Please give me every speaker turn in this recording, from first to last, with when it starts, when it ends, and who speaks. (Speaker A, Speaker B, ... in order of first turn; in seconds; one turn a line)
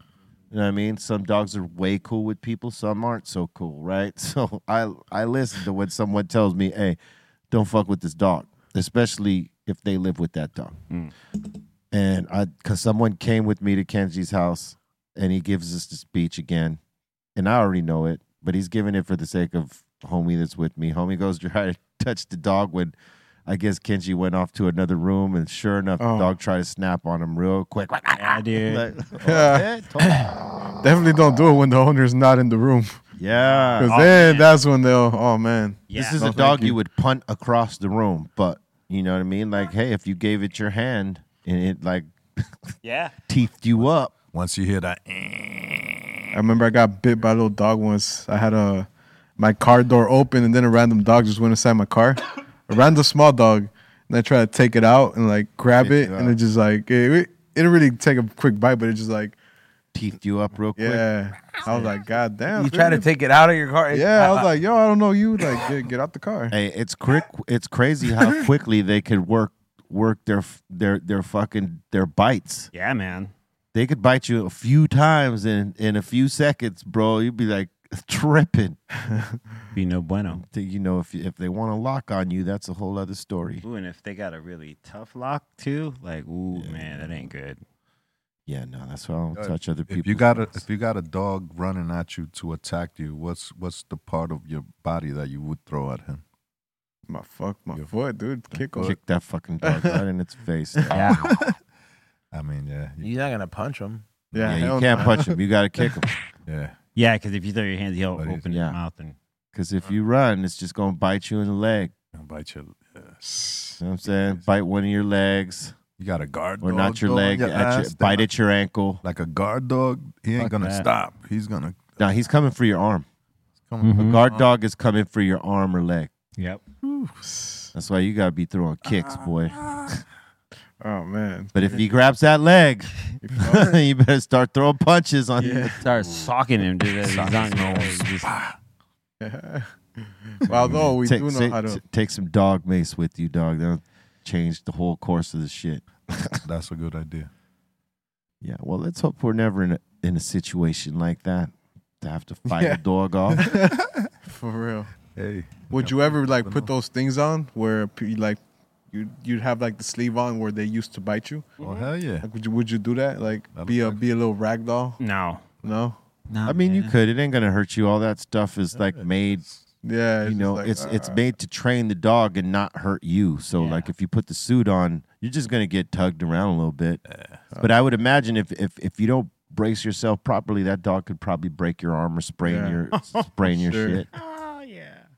Speaker A: 0.5-7.0
Speaker A: 7.5-10.8
Speaker A: 11.9-16.8
Speaker A: 17.4-22.9
Speaker A: 23.4-30.3
Speaker B: 26.0-26.3
Speaker C: 28.2-28.9
Speaker B: 29.2-30.3
Speaker B: 30.8-33.0
Speaker A: 33.2-34.1
Speaker C: 33.3-34.5
Speaker B: 33.8-36.8
Speaker C: 35.9-36.2
Speaker A: 35.9-42.4
Speaker C: 42.8-43.1
Speaker A: 43.3-44.1
Speaker D: 44.3-46.4
Speaker B: 46.3-48.9
Speaker B: 49.4-59.4
Speaker A: 55.8-56.4
Speaker A: 59.9-61.0
Speaker B: 60.8-63.1
Speaker E: 62.5-64.5
Speaker B: 63.9-66.5
Speaker A: 66.5-72.7
Speaker C: 72.7-73.3
Speaker A: 73.7-78.8
Speaker B: 79.1-79.4
Speaker C: 79.7-80.4
Speaker A: 80.3-83.6
Speaker C: 83.6-87.6
Speaker A: 86.5-87.1
Speaker A: 88.5-90.6
Speaker D: 89.3-96.2
Speaker B: 97.1-99.0
Speaker D: 98.5-98.9
Speaker A: 98.8-101.2
Speaker B: 99.6-100.0
Speaker C: 100.9-101.3
Speaker D: 101.1-101.6
Speaker D: 102.3-103.1
Speaker E: 103.0-104.0
Speaker D: 104.3-104.7
Speaker B: 104.3-105.3
Speaker A: 104.4-106.1
Speaker D: 106.5-106.8
Speaker C: 107.0-109.2
Speaker D: 108.2-108.5
Speaker A: 108.5-108.8
Speaker A: 109.5-111.9
Speaker D: 112.1-113.2
Speaker B: 113.2-113.7
Speaker A: 113.8-115.8
Speaker D: 116.0-118.3
Speaker A: 116.6-119.0
Speaker D: 119.0-122.0
Speaker C: 120.4-120.9
Speaker A: 122.0-123.0
Speaker D: 123.7-124.5
Speaker C: 123.8-124.2
Speaker A: 124.0-126.1
Speaker C: 126.4-126.6
Speaker D: 126.8-127.2
Speaker B: 127.3-127.7
Speaker A: 127.7-129.7
Speaker B: 130.8-131.8
Speaker A: 131.5-135.8
Speaker B: 133.2-133.8
Speaker B: 135.4-135.8
Speaker C: 135.8-138.3
Speaker D: 135.8-138.6
Speaker B: 139.2-139.7
Speaker B: 140.5-141.8
Speaker A: 140.5-146.4
Speaker D: 140.6-140.9
Speaker D: 146.4-147.3
Speaker A: 148.4-153.5
Speaker B: 152.5-152.8
Speaker B: 153.4-153.7
Speaker D: 153.5-154.1
Speaker B: 154.3-154.9
Speaker D: 155.1-156.7
Speaker B: 155.7-158.4
Speaker B: 158.9-161.5
Speaker C: 161.6-161.9
Speaker D: 161.6-162.3
Speaker B: 162.2-165.0
Speaker D: 163.5-164.0
Speaker C: 165.0-165.4
Speaker B: 165.6-166.0
Speaker C: 166.3-166.9
Speaker A: 166.4-169.4
Speaker D: 168.7-169.7
Speaker B: 169.8-171.2
Speaker A: 170.2-177.0
Speaker C: 173.6-173.9
Speaker D: 177.1-177.4
Speaker A: 177.6-184.1
Speaker B: 182.4-182.8
Speaker C: 182.9-183.3
Speaker B: 183.5-184.0
Speaker C: 184.1-185.0